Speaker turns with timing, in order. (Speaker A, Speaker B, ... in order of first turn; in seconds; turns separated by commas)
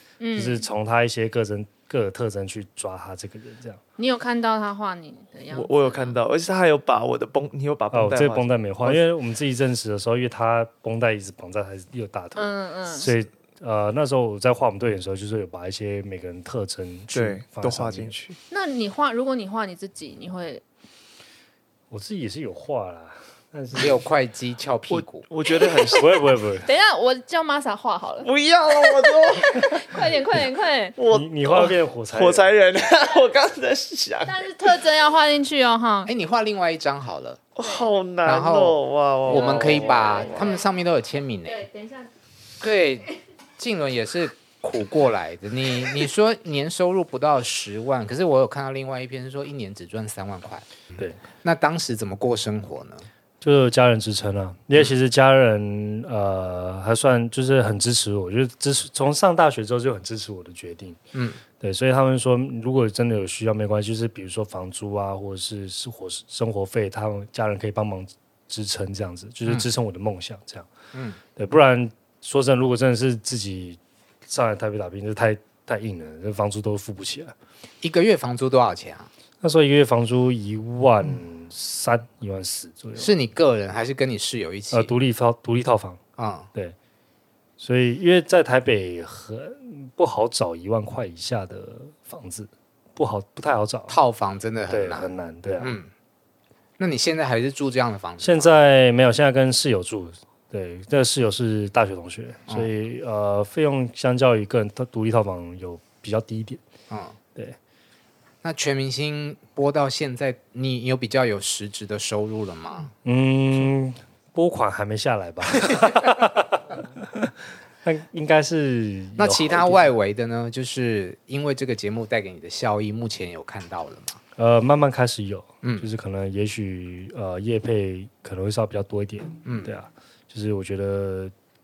Speaker A: 0.2-0.6, Speaker B: 0.3-3.8, Speaker A: 4.0-6.2, Speaker C: 5.5-9.0, Speaker B: 7.9-18.1, Speaker A: 12.3-13.1, Speaker C: 17.1-18.4, Speaker A: 18.5-20.6, Speaker B: 21.9-24.0, Speaker D: 23.7-25.2, Speaker C: 24.9-26.2, Speaker B: 25.9-26.7, Speaker A: 26.6-30.9, Speaker C: 28.2-30.1, Speaker C: 30.9-34.5, Speaker B: 31.1-32.5, Speaker A: 34.2-36.1, Speaker D: 36.0-37.4, Speaker C: 37.5-40.6, Speaker D: 38.2-41.6, Speaker A: 39.3-40.5, Speaker A: 41.5-42.1, Speaker D: 42.6-53.1, Speaker B: 53.4-61.0, Speaker D: 61.1-61.4, Speaker B: 61.6-70.7, Speaker D: 70.9-71.2, Speaker B: 71.3-77.3, Speaker D: 77.8-79.1, Speaker B: 79.4-83.1, Speaker D: 83.0-84.9, Speaker B: 84.7-86.0, Speaker D: 86.2-86.5, Speaker B: 87.6-94.0, Speaker D: 93.9-95.9, Speaker B: 94.7-95.8, Speaker D: 96.8-98.5, Speaker B: 98.2-106.6, Speaker D: 106.9-107.2, Speaker D: 108.4-112.9, Speaker B: 113.0-119.9, Speaker D: 119.2-124.2, Speaker B: 124.4-131.3, Speaker D: 129.4-129.7